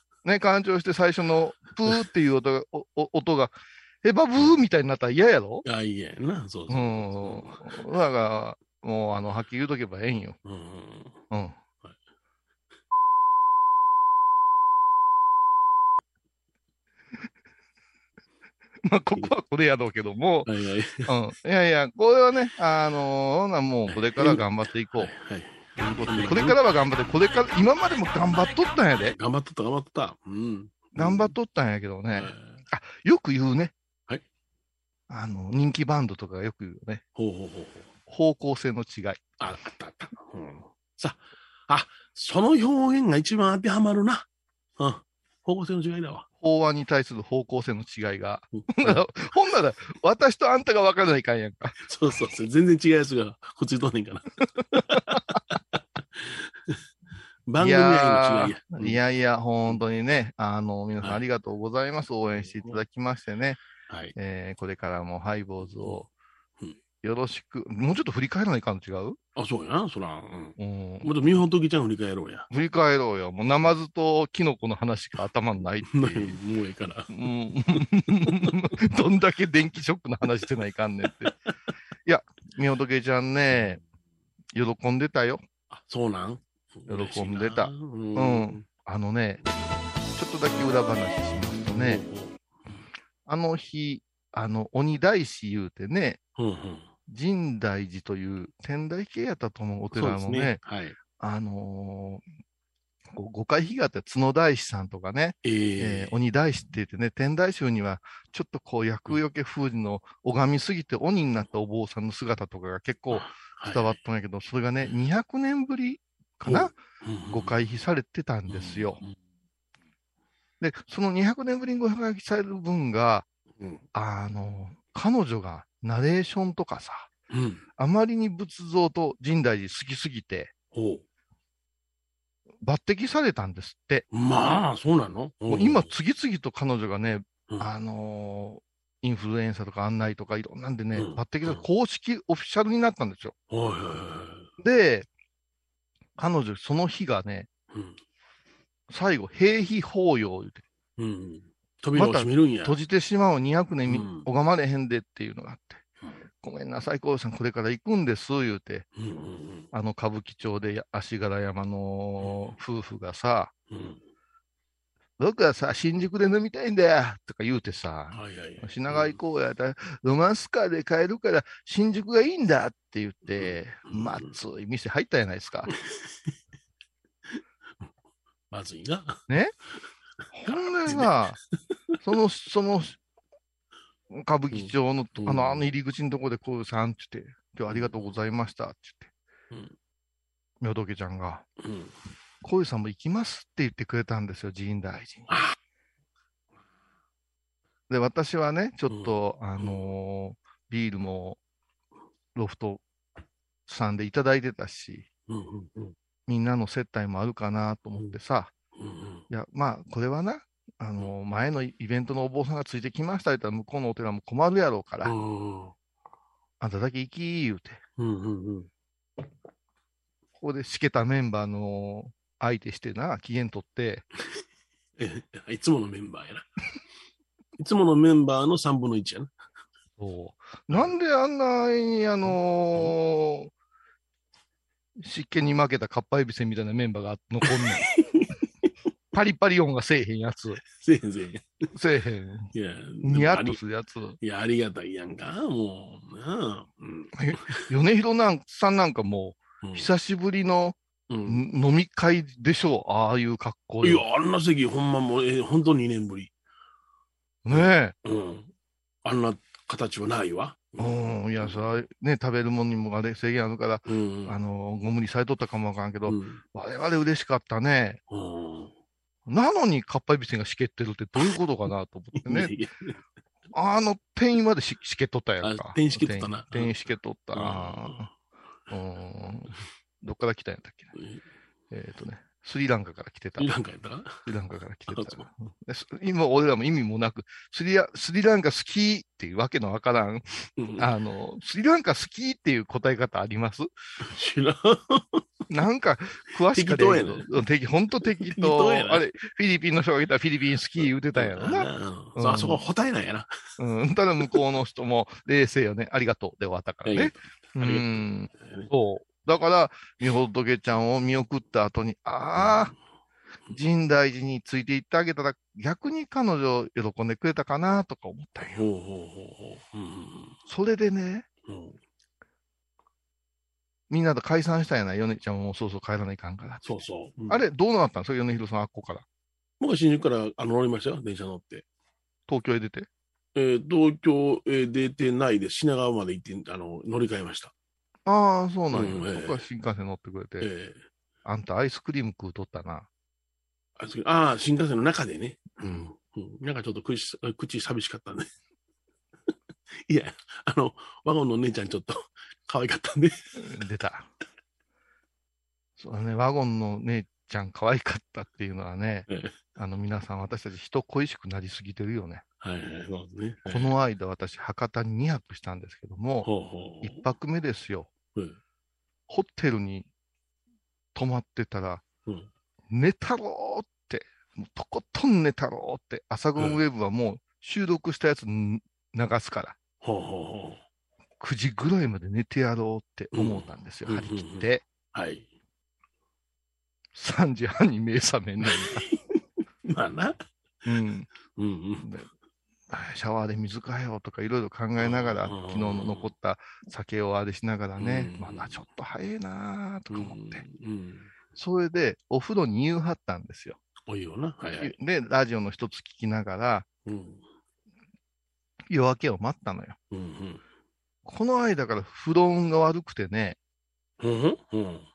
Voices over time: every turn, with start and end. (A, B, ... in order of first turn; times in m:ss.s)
0:00.2-0:05.6 A
0:05.6-0:07.7 B
0:06.7-0:10.4 A
0:10.4-0:11.2 B
0:11.3-0:11.6 A
0:18.8-0:20.5 A
0:20.4-0:21.1 B
0:21.0-0:25.1 A
0:23.9-0:26.6 B
0:25.8-0:29.2 A
0:29.2-0:31.3 B
0:30.9-0:33.7 A
0:32.1-0:32.6 B
0:35.1-0:37.0 A
0:37.2-0:37.9 B
0:38.1-0:39.2 A
0:39.4-0:44.3 B
0:44.8-0:46.2 B
0:46.4-0:51.8 A
0:48.5-0:49.0 B
0:51.8-0:56.8 B
0:54.9-0:55.2 A
0:57.5-0:59.0 B
0:57.6-1:03.6 A
1:02.3-1:02.8 B
1:03.9-1:04.1 B
1:04.2-1:06.1 A
1:07.0-1:09.2 A
1:09.4-1:12.5 B
1:10.6-1:11.4 A
1:12.5-1:16.4 A
1:16.0-1:17.2 B
1:17.1-1:21.3 A
1:17.7-1:18.6 B
1:22.0-1:23.8 A
1:24.5-1:25.4 A
1:25.7-1:28.6 B
1:26.9-1:29.4 A
1:30.1-1:32.0 A
1:31.6-1:32.4 B
1:33.2-1:36.2 A
1:36.4-1:36.9 B
1:37.1-1:40.6 A
1:39.9-1:41.0 B
1:41.2-1:42.2 A
1:43.1-1:56.7 A
1:45.4-1:46.2 B
1:53.1-1:54.0 B
1:56.4-1:57.6 B
1:57.3-1:59.0 A
1:58.5-1:59.1 B
2:00.6-2:03.3 A
2:03.6-2:03.8 B
2:03.9-2:07.1 A
2:07.3-2:07.6 B
2:07.8-2:10.5 A
2:10.7-2:11.0 B
2:12.6-2:14.1 A
2:14.1-2:15.9 B
2:15.5-2:23.3 A
2:20.9-2:21.6 B
2:23.5-2:24.5 B
2:24.6-2:25.1 A
2:26.2-2:27.5 A
2:27.7-2:28.0 B
2:28.9-2:30.6 A
2:31.0-2:32.8 B
2:31.9-2:35.8 A
2:33.9-2:34.3 B
2:36.4-2:38.8 A
2:39.0-2:39.7 B
2:39.7-2:43.5 A
2:42.2-2:42.5 B
2:43.7-2:44.0 B
2:45.2-2:55.7 A
2:48.1-2:49.2 B
2:53.3-2:54.3 B
2:55.7-2:56.1 B
2:58.5-2:59.2 B
3:00.3-3:01.4 A
3:00.5-3:01.1 B
3:02.0-3:03.0 A
3:04.1-3:09.1 A
3:04.5-3:05.7 B
3:07.7-3:07.9 B
3:10.6-3:11.5 A
3:11.6-3:11.9 B
3:12.4-3:15.3 A
3:15.3-3:15.5 B
3:17.9-3:21.4 A
3:18.9-3:19.9 B
3:22.3-3:22.8 A
3:23.7-3:25.0 A
3:25.3-3:25.9 B
3:26.3-3:28.5 A
3:28.8-3:29.2 B
3:29.3-3:35.1 A
3:35.0-3:35.7 B
3:36.6-3:37.8 A
3:38.0-3:38.7 B
3:40.4-3:44.0 A
3:45.0-3:46.4 B
3:47.6-3:49.3 B
3:50.0-3:53.5 A
3:52.2-3:53.0 B
3:55.0-3:57.9 A
3:57.4-3:58.3 B
3:59.1-4:00.6 A
4:00.8-4:01.7 B
4:01.7-4:02.5 A
4:02.5-4:03.6 B
4:03.0-4:04.2 A
4:04.2-4:07.6 B
4:07.1-4:14.0 A
4:09.6-4:09.9 B
4:11.1-4:11.4 B
4:13.8-4:16.3 B
4:17.4-4:17.9 A
4:17.5-4:18.5 B
4:19.0-4:21.6 B
4:20.8-4:28.0 A
4:23.9-4:24.4 B
4:26.0-4:26.4 B
4:28.1-4:28.7 B
4:29.3-4:32.5 A
4:32.2-4:33.0 B
4:33.5-4:38.1 A
4:35.4-4:36.7 B
4:37.3-4:38.1 B
4:38.7-4:40.9 A
4:41.0-4:41.2 B
4:41.7-4:43.5 A
4:43.4-4:44.2 B
4:44.2-4:53.7 A
4:44.9-4:45.3 B
4:50.6-4:50.9 B
4:54.0-4:55.2 B
4:55.5-5:02.6 A
4:56.5-4:57.3 B
4:58.2-4:59.0 B
5:00.8-5:03.3 B
5:03.6-5:12.7 A
5:06.8-5:08.7 B
5:12.4-5:12.7 B
5:13.5-5:18.6 A
5:18.4-5:20.4 B
5:20.5-5:21.2 A
5:21.5-5:21.8 B
5:23.9-5:29.0 A
5:26.6-5:27.4 B
5:29.6-5:31.6 B
5:32.3-5:32.9 A
5:33.3-5:37.5 B
5:38.0-5:40.5 A
5:38.7-5:39.4 B
5:40.4-5:40.8 B
5:41.2-5:42.9 A
5:43.8-5:48.3 B
5:49.9-5:53.2 B
5:53.4-5:54.1 A
5:55.8-6:02.2 A
5:59.1-5:59.3 B
6:02.4-6:03.7 B
6:03.4-6:06.3 A
6:06.2-6:07.0 B
6:06.8-6:07.9 A
6:09.1-6:09.9 A
6:10.9-6:11.8 A
6:12.7-6:19.6 A
6:19.8-6:20.6 B
6:21.2-6:24.6 A
6:23.1-6:25.3 B
6:26.9-6:28.9 A
6:28.4-6:30.2 B
6:30.6-6:31.1 A
6:31.4-6:31.9 B
6:32.7-6:40.4 A
6:34.8-6:36.1 B
6:37.8-6:38.6 B
6:39.9-6:41.1 B
6:41.3-6:43.6 A
6:43.9-6:44.7 B
6:44.6-6:46.6 A
6:46.8-6:47.2 B
6:48.7-6:49.8 A
6:49.9-6:50.4 B
6:51.0-6:53.4 A
6:54.0-6:54.9 B